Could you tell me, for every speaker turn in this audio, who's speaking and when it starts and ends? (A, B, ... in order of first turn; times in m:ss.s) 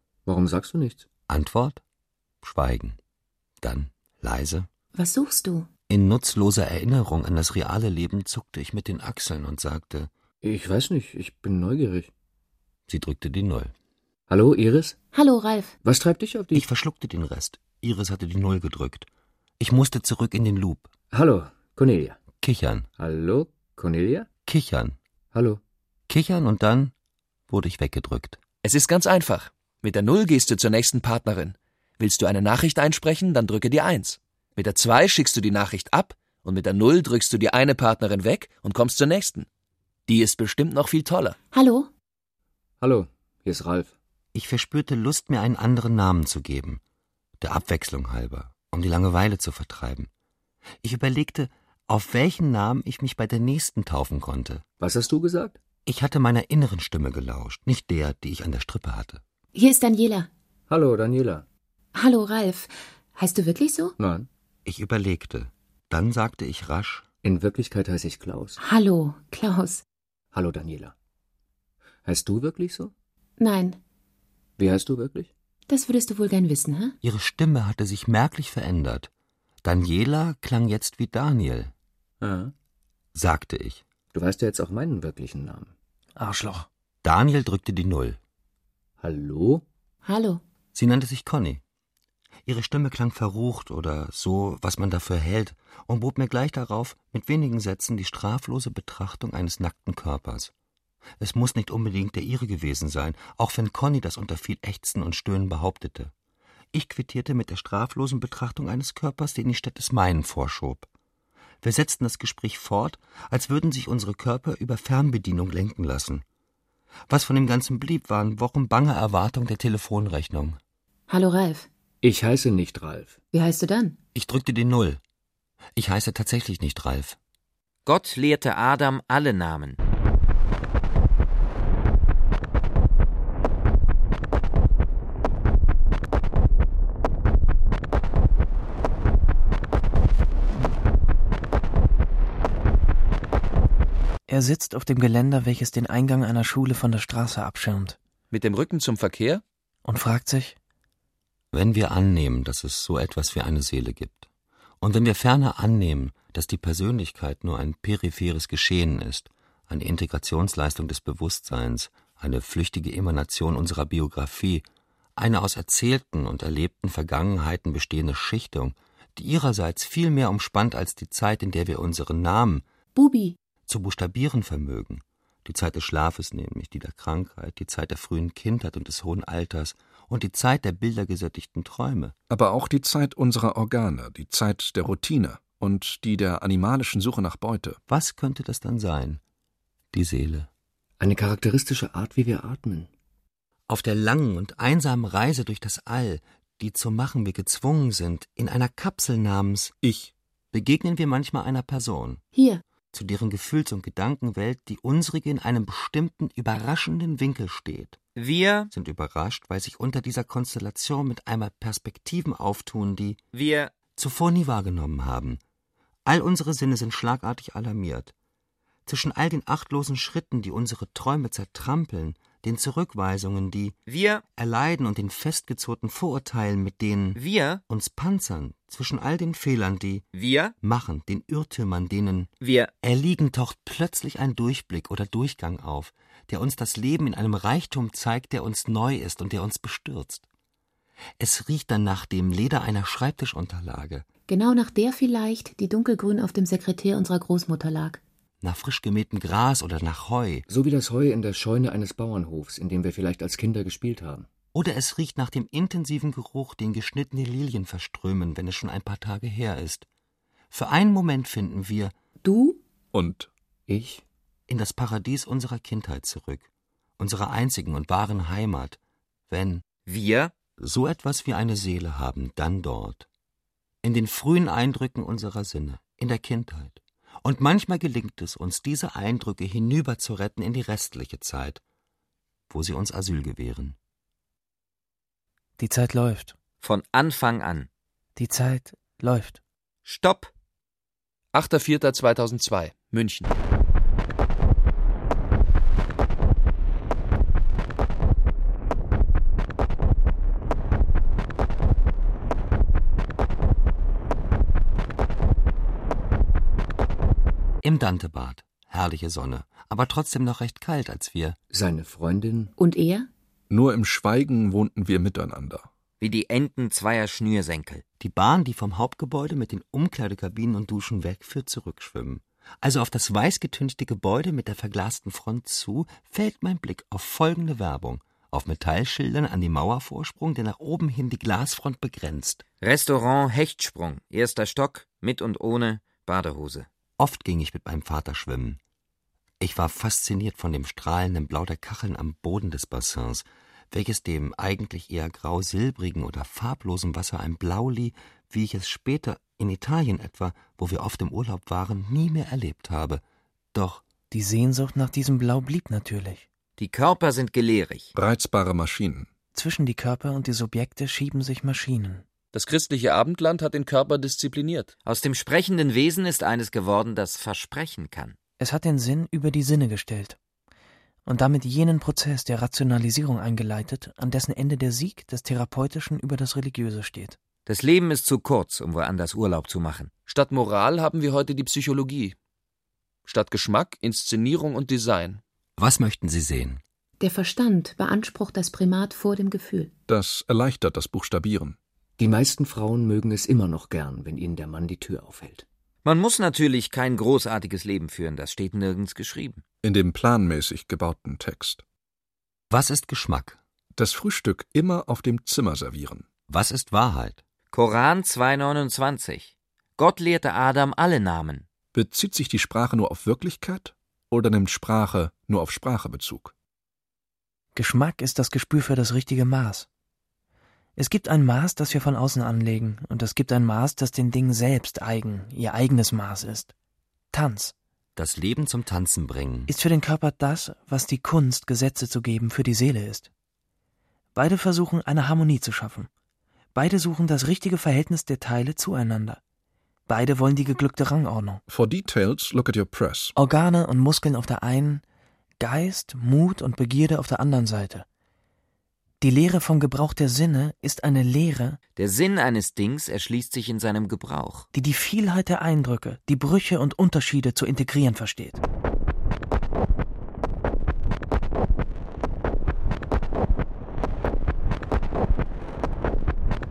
0:00.3-0:01.1 A
0:01.3-0:01.8 B
0:02.4-0:03.0 B
0:03.6-0:04.7 B
0:05.0-0:05.7 C
0:05.9-0:10.1 B
0:10.4-0:12.1 A
0:12.9-0:13.7 B
0:14.3-0:15.0 A
0:15.1-0:15.8 C
0:15.8-0:16.6 A
0:16.5-0:19.1 B
0:19.6-0:20.9 B
0:21.1-0:22.2 A
0:22.4-0:22.9 B
0:23.0-0:24.3 A
0:24.5-0:25.0 B
0:25.3-0:25.6 A
0:26.1-0:26.9 B
0:27.5-0:28.4 B
0:28.6-0:39.5 D
0:40.1-0:41.4 D
0:41.5-0:41.9 C
0:42.8-0:43.9 A
0:44.3-0:46.8 B
0:47.4-0:50.1 B
0:50.8-0:54.6 B
0:54.8-0:55.6 A
0:55.9-0:59.2 B
0:59.5-1:00.3 C
1:00.7-1:01.4 A
1:01.9-1:04.0 C
1:04.0-1:04.3 A
1:04.6-1:07.0 B
1:07.2-1:08.6 A
1:08.6-1:09.8 C
1:10.3-1:10.9 A
1:12.0-1:12.9 A
1:13.4-1:13.8 C
1:14.6-1:15.3 A
1:15.7-1:17.0 C
1:17.0-1:19.1 B
1:19.6-1:21.7 B
1:22.2-1:22.5 A
1:23.1-1:23.8 B
1:24.1-1:25.7 A
1:26.2-1:26.7 E
1:27.0-1:28.2 B
1:29.0-1:29.6 A
1:30.0-1:30.4 C
1:30.7-1:31.6 B
1:32.5-1:40.5 B
1:41.2-1:46.1 B
1:46.7-1:50.9 B
1:51.6-1:56.2 B
1:57.1-2:00.6 B
2:01.1-2:01.7 C
2:02.0-2:03.2 A
2:03.3-2:04.0 C
2:04.2-2:05.0 B
2:05.8-2:07.2 B
2:07.9-2:09.8 F
2:24.3-2:28.0 E
2:28.3-2:29.4 D
2:29.8-2:30.6 E
2:31.5-2:34.3 B
2:34.8-2:44.6 B
2:45.2-2:52.7 B
2:53.0-2:53.4 C
2:53.7-3:02.2 B
3:02.3-3:07.8 G
3:07.9-3:09.2 B
3:09.9-3:10.5 B
3:11.0-3:12.9 A
3:13.7-3:19.7 B
3:19.8-3:20.1 G
3:20.5-3:22.2 B
3:22.3-3:22.6 C
3:22.9-3:28.0 B
3:28.2-3:28.7 F
3:28.7-3:33.2 B
3:33.3-3:33.7 F
3:34.0-3:35.4 B
3:36.1-3:38.1 B
3:38.9-3:43.8 B
3:43.9-3:44.2 F
3:44.4-3:50.1 B
3:47.2-3:47.6 F
3:50.1-3:50.5 F
3:50.6-3:52.3 B
3:52.4-3:52.7 F
3:52.8-4:00.2 B
4:01.2-4:04.1 B
4:04.3-4:08.0 C
4:08.4-4:10.4 B
4:10.5-4:14.3 A
4:14.5-4:19.9 B
4:20.5-4:21.9 B
4:22.2-4:22.6 C
4:22.9-4:23.3 G
4:23.7-4:24.0 A
4:24.5-4:28.8 B
4:29.3-4:29.6 B
4:29.9-4:30.3 F
4:30.6-4:33.1 B
4:33.8-4:41.6 B
4:42.5-4:43.8 B
4:45.6-4:46.4 E
4:46.6-4:47.7 F
4:48.2-4:49.4 E
4:49.9-4:50.3 F
4:51.3-4:53.3 D
5:07.6-5:11.4 B
5:11.5-5:12.5 A
5:12.6-5:13.1 C
5:13.5-5:15.7 G
5:16.0-5:17.8 F
5:18.0-5:32.4 B
5:32.6-5:36.7 F
5:37.0-5:38.6 B
5:39.4-5:53.0 B
5:53.5-5:53.8 B
5:54.1-5:56.3 E
5:56.6-5:57.9 F
5:58.0-5:59.1 G
5:59.3-6:02.0 E
6:02.3-6:04.7 D
6:04.9-6:08.2 F
6:08.4-6:10.2 E
6:11.1-6:17.2 E
6:17.5-6:19.9 F
6:20.1-6:22.2 D
6:23.1-6:25.2 D
6:25.6-6:26.6 B
6:27.0-6:29.7 C
6:29.9-6:31.6 G
6:32.0-6:35.4 A
6:35.8-6:39.4 F
6:39.6-6:41.6 G
6:42.5-6:43.4 B
6:43.8-6:46.1 G
6:46.3-6:47.2 B
6:47.5-6:51.5 F
6:51.7-6:56.3 G
6:57.6-6:59.7 E
7:00.8-7:06.5 E
7:07.1-7:07.5 E
7:08.0-7:09.5 B
7:09.5-7:13.1 E
7:14.2-7:15.9 E
7:16.6-7:19.2 E
7:19.9-7:21.4 E
7:21.5-7:23.2 G
7:23.2-7:24.8 E
7:25.4-7:27.9 E
7:29.0-7:31.6 E
7:31.8-7:34.5 F
7:34.5-7:38.4 E